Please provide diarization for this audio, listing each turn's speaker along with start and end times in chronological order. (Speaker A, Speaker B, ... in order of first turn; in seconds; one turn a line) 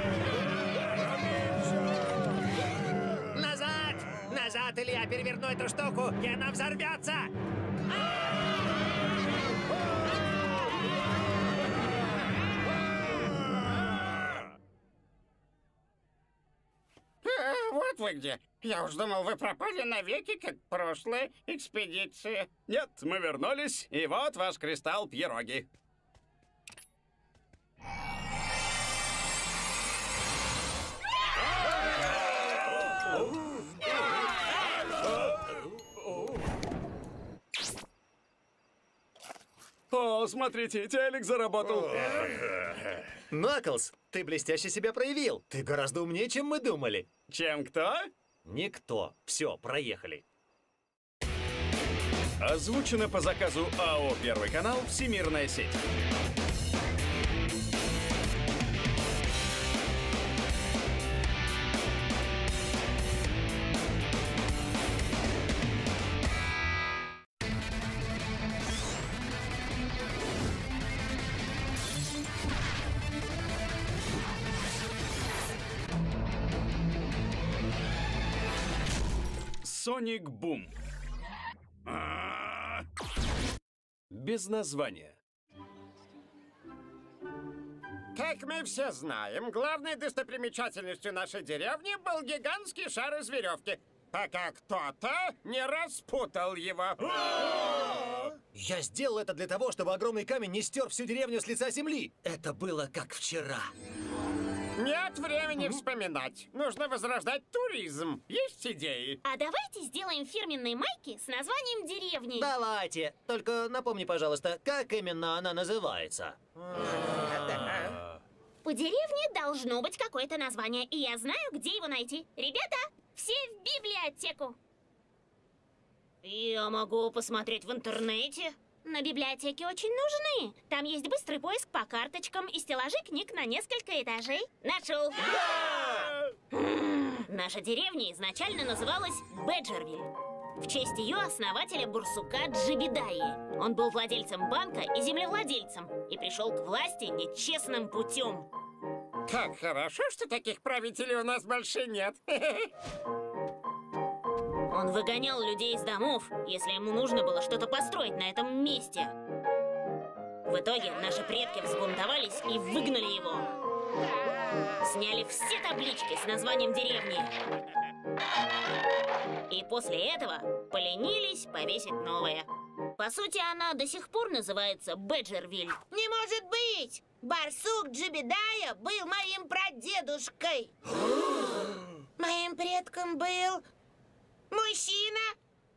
Speaker A: 1.1-2.0
Speaker B: 3.3-7.3
Speaker C: 17.2-22.5
Speaker A: 22.7-25.7
Speaker A: 39.9-43.0
Speaker B: 43.3-47.1
Speaker A: 47.3-48.1
Speaker B: 48.5-50.2
Speaker A: 52.4-55.8
Speaker A: 79.6-80.8
Speaker A: 81.9-82.8
Speaker A: 84.1-85.2
Speaker C: 88.2-97.4
Speaker D: 97.8-98.3
Speaker B: 98.5-103.7
Speaker C: 104.8-109.2
Speaker E: 109.2-112.5
Speaker B: 112.4-117.5
Speaker E: 118.6-124.6
Speaker E: 126.2-135.5
Speaker E: 136.5-148.5
Speaker C: 149.3-152.7
Speaker E: 154.7-159.1
Speaker E: 160.5-163.5
Speaker E: 164.8-167.3
Speaker E: 169.5-175.8
Speaker D: 175.9-180.8
Speaker D: 181.3-183.6
Speaker D: 184.5-185.3